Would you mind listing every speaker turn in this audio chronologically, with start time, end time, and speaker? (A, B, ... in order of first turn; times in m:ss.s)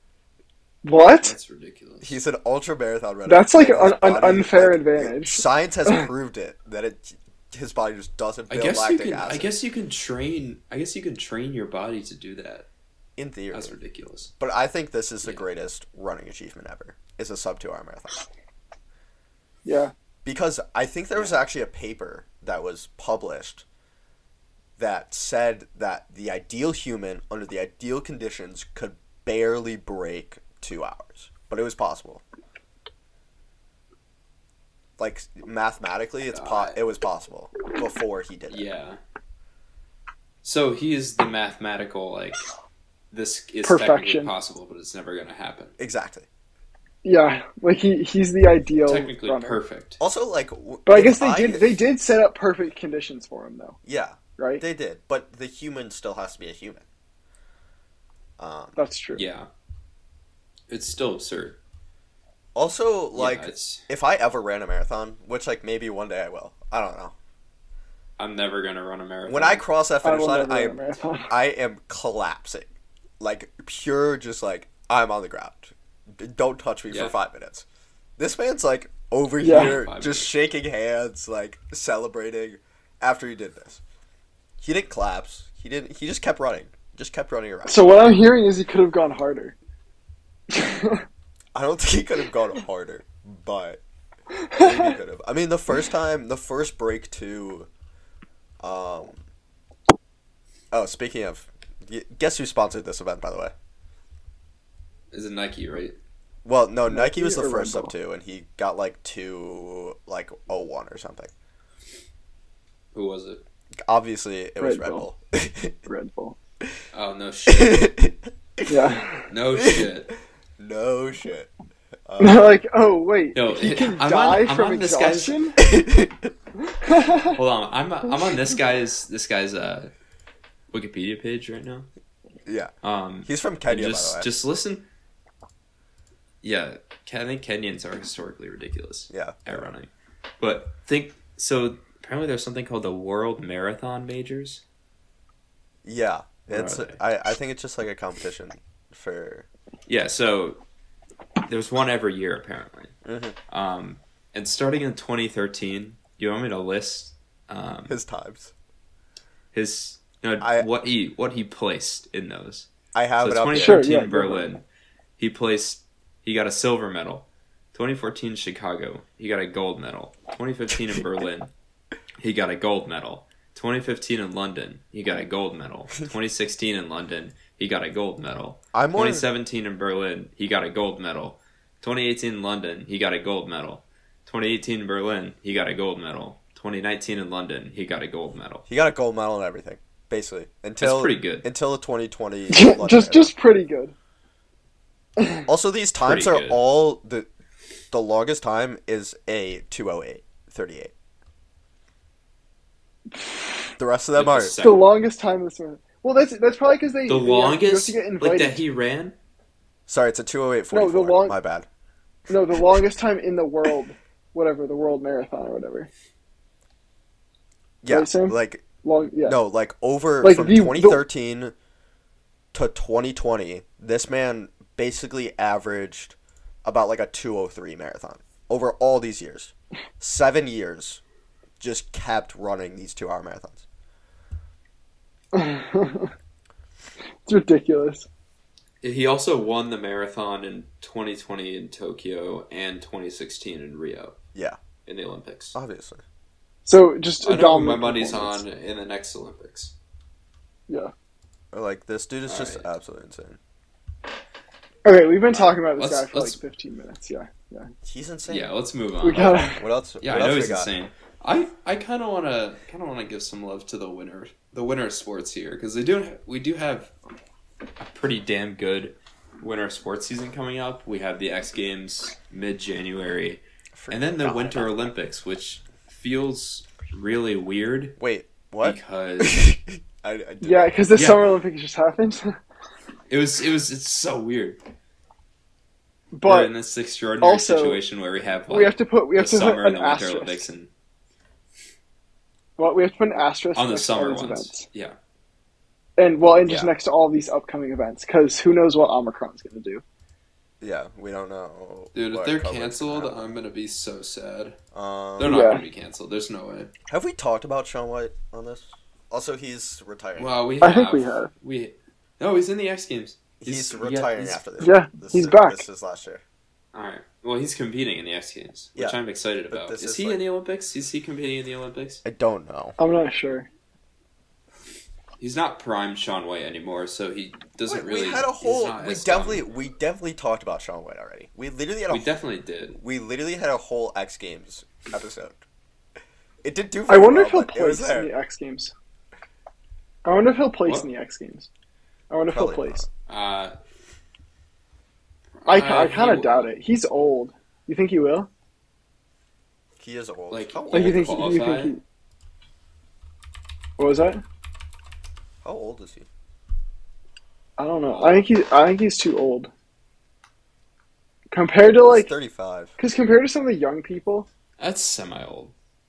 0:00.8-0:01.4 A
0:01.0-0:02.2 B
0:02.0-0:09.5 C
0:03.2-0:05.4 A
0:08.5-0:12.7 B
0:13.2-0:13.7 C
0:13.5-0:14.3 B
0:14.4-0:18.2 C
0:19.6-0:19.9 A
0:20.2-0:23.6 C
0:21.1-0:21.4 B
0:24.8-0:32.2 C
0:35.0-0:38.7 C
0:36.3-0:36.8 B
0:38.5-0:39.0 B
0:40.4-0:42.4 B
0:43.1-0:45.7 B
0:43.6-0:44.3 A
0:45.8-0:46.3 C
0:47.0-0:49.6 A
0:48.8-0:50.0 B
0:50.0-0:51.8 C
0:50.8-0:53.8 A
0:53.8-0:56.8 C
0:54.4-0:54.6 A
0:58.4-0:58.8 C
0:58.8-0:59.2 A
0:59.1-0:59.5 B
1:00.7-1:01.6 B
1:02.5-1:07.1 C
1:03.1-1:03.8 B
1:08.2-1:09.6 B
1:09.3-1:17.6 C
1:10.0-1:11.3 A
1:16.9-1:17.1 B
1:18.2-1:23.8 C
1:19.4-1:19.8 A
1:19.4-1:20.3 B
1:24.6-1:27.8 C
1:27.6-1:29.6 A
1:30.5-1:31.0 A
1:31.5-1:33.8 C
1:34.4-1:34.8 A
1:34.6-1:37.7 C
1:38.6-1:39.2 C
1:40.7-1:43.5 C
1:45.1-1:45.9 B
1:46.4-1:51.3 C
1:46.9-1:47.9 A
1:52.9-1:53.4 B
1:53.8-1:55.8 C
1:54.6-1:55.0 A
1:55.9-1:56.4 A
1:56.9-1:57.9 B
1:57.4-1:58.9 C
1:58.7-1:59.2 A
1:59.3-2:00.1 B
1:59.5-1:59.9 C
2:00.6-2:01.5 C
2:02.1-2:02.5 C
2:02.2-2:05.6 A
2:03.3-2:05.4 B
2:05.6-2:06.3 C
2:06.8-2:07.3 A
2:07.2-2:09.9 B
2:10.7-2:11.9 B
2:12.4-2:12.7 C
2:12.8-2:14.8 B
2:13.2-2:14.3 C
2:16.4-2:19.9 B
2:19.1-2:19.7 C
2:20.4-2:24.6 B
2:25.8-2:29.5 C
2:26.5-2:27.0 B
2:29.9-2:30.6 B
2:31.5-2:32.9 B
2:33.0-2:33.4 C
2:33.5-2:37.9 B
2:37.9-2:38.5 C
2:39.5-2:42.7 B
2:40.4-2:40.7 C
2:42.9-2:43.9 C
2:43.2-2:44.6 B
2:43.5-2:44.5 A
2:45.2-2:51.5 B
2:52.2-3:08.6 B
2:58.7-2:59.2 C
3:08.7-3:13.3 C
3:10.8-3:11.4 B
3:12.5-3:13.9 A
3:15.2-3:15.4 A
3:15.5-3:17.3 C
3:16.0-3:16.6 B
3:17.9-3:20.9 C
3:23.8-3:24.5 C
3:24.1-3:24.9 B
3:24.6-3:28.6 A
3:27.1-3:29.2 B
3:29.9-3:31.7 C
3:30.7-3:31.4 A
3:32.3-3:35.9 A
3:37.8-3:38.6 C
3:37.9-3:39.4 A
3:39.2-3:41.5 C
3:40.2-3:41.0 A
3:42.5-3:51.0 C
3:51.6-3:53.6 C
3:55.3-3:56.1 A
3:57.2-3:58.1 A
3:58.8-4:04.2 B
4:04.8-4:05.6 B
4:05.5-4:06.0 C
4:06.6-4:08.4 A
4:07.2-4:09.7 B
4:11.5-4:13.4 C
4:12.3-4:12.7 B
4:14.8-4:17.7 A
4:15.3-4:16.4 B
4:17.8-4:18.5 C
4:18.3-4:26.9 B
4:19.0-4:19.6 A
4:19.4-4:20.7 C
4:27.8-4:38.0 B
4:33.7-4:34.9 C
4:38.0-4:40.9 C
4:38.6-4:39.5 B
4:40.4-4:42.3 A
4:40.9-4:41.3 B
4:43.1-4:44.6 B
4:46.1-4:46.5 A
4:46.2-4:50.7 B
4:47.2-4:47.8 A
4:48.5-4:50.4 A
4:52.6-4:54.6 A
4:53.6-4:55.0 B
4:56.0-4:59.8 A
5:00.6-5:03.3 C
5:01.9-5:04.6 B
5:04.7-5:05.3 C
5:05.2-5:06.7 B
5:05.2-5:05.6 A
5:06.9-5:10.3 C
5:10.2-5:14.4 B
5:10.6-5:11.3 A
5:13.4-5:16.2 C
5:14.6-5:15.6 A
5:16.7-5:22.0 B
5:19.5-5:20.2 C
5:22.0-5:22.8 C
5:22.8-5:23.5 A
5:25.2-5:29.4 B
5:27.6-5:32.1 C
5:31.9-5:32.8 B
5:32.7-5:35.4 C
5:36.4-5:38.1 C
5:36.9-5:38.7 A
5:40.0-5:41.5 A
5:42.1-5:42.8 A
5:42.3-5:42.9 C
5:43.1-5:43.6 B
5:45.4-5:46.5 B
5:45.5-5:48.3 A
5:49.8-5:51.3 C
5:50.3-5:51.7 B
5:50.7-5:51.8 A
5:53.8-5:54.2 A
5:55.4-5:56.1 C
5:57.6-5:59.5 A
6:01.3-6:02.1 A
6:01.8-6:02.7 C
6:02.8-6:04.3 A
6:04.6-6:05.5 B